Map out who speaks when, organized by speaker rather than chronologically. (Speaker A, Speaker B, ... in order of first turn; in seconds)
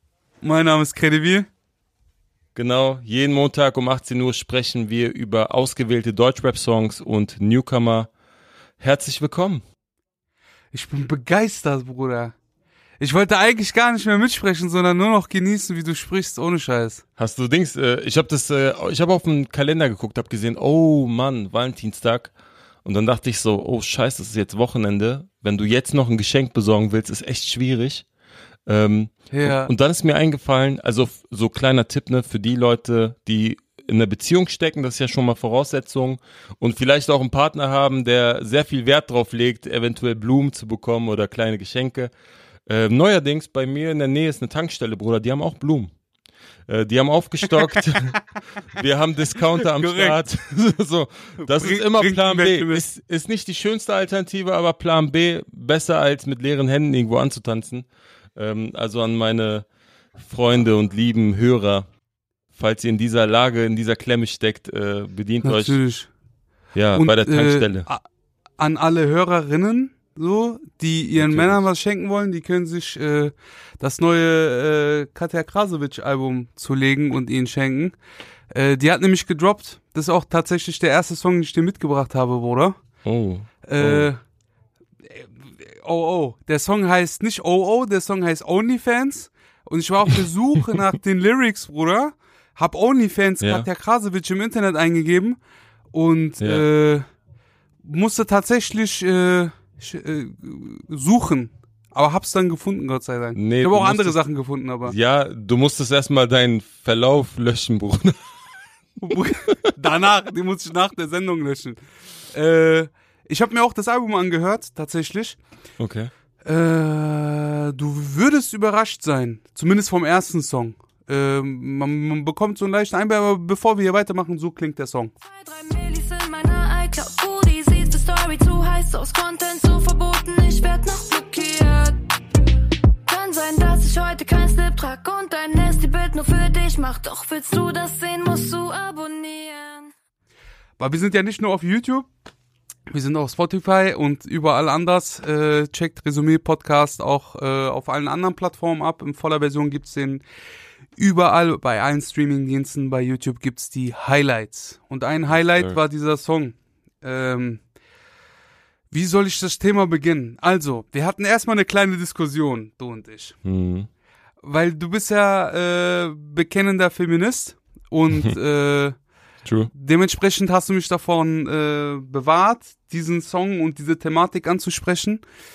Speaker A: 0.4-1.5, 10.7-12.3, 13.0-17.0, 29.3-29.7, 49.6-50.2, 51.4-52.8, 65.4-66.1, 67.0-68.0, 68.6-78.0, 78.5-82.8, 83.7-84.2, 85.1-95.4, 95.9-97.1, 97.8-104.9, 109.0-111.8, 112.3-115.4, 116.4-125.1, 140.8-142.1, 142.9-150.2, 151.0-157.6, 158.9-163.3, 164.4-169.0, 169.7-175.2
Speaker B: 2.5-8.1, 8.8-9.6, 17.2-22.3, 22.8-28.0, 28.7-42.1, 42.7-45.9, 46.7-48.2, 48.7-59.6, 60.2-61.9, 62.5-65.8, 66.7-67.9, 71.2-71.6, 83.0-84.1, 93.4-93.7, 96.4-96.7, 103.3-104.2, 104.8-108.2, 115.8-116.1, 155.3-155.8, 163.4-163.9, 169.4-169.7
Speaker C: 125.2-132.0, 133.1-139.9